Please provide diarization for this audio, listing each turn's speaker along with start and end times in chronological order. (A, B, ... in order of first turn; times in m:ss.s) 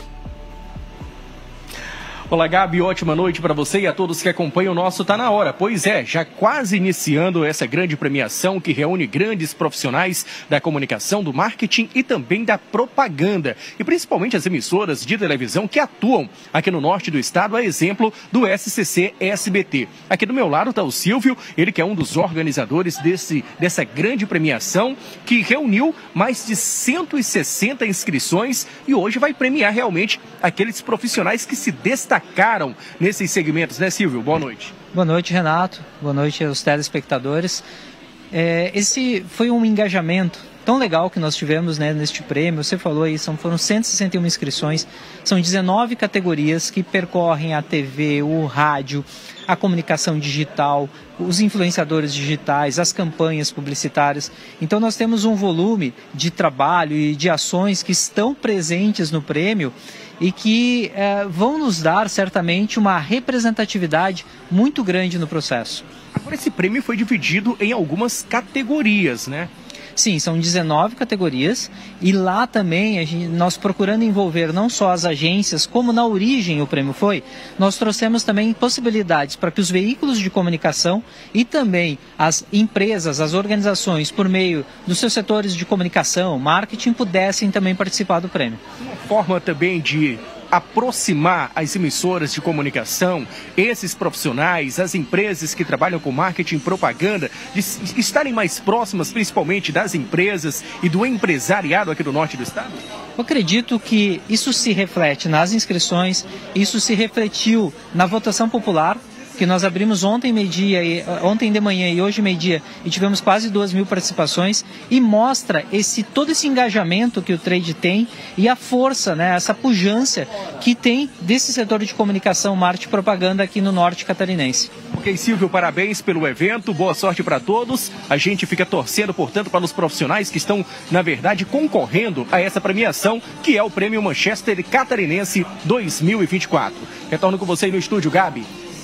0:02.3-0:34.7 A
0:34.9-0:37.6 B
0:38.3-1:05.8 B
1:06.2-1:09.5 A
1:10.0-1:28.6 B
1:28.8-1:42.8 A
1:43.2-2:04.7 B
2:04.9-2:18.5 A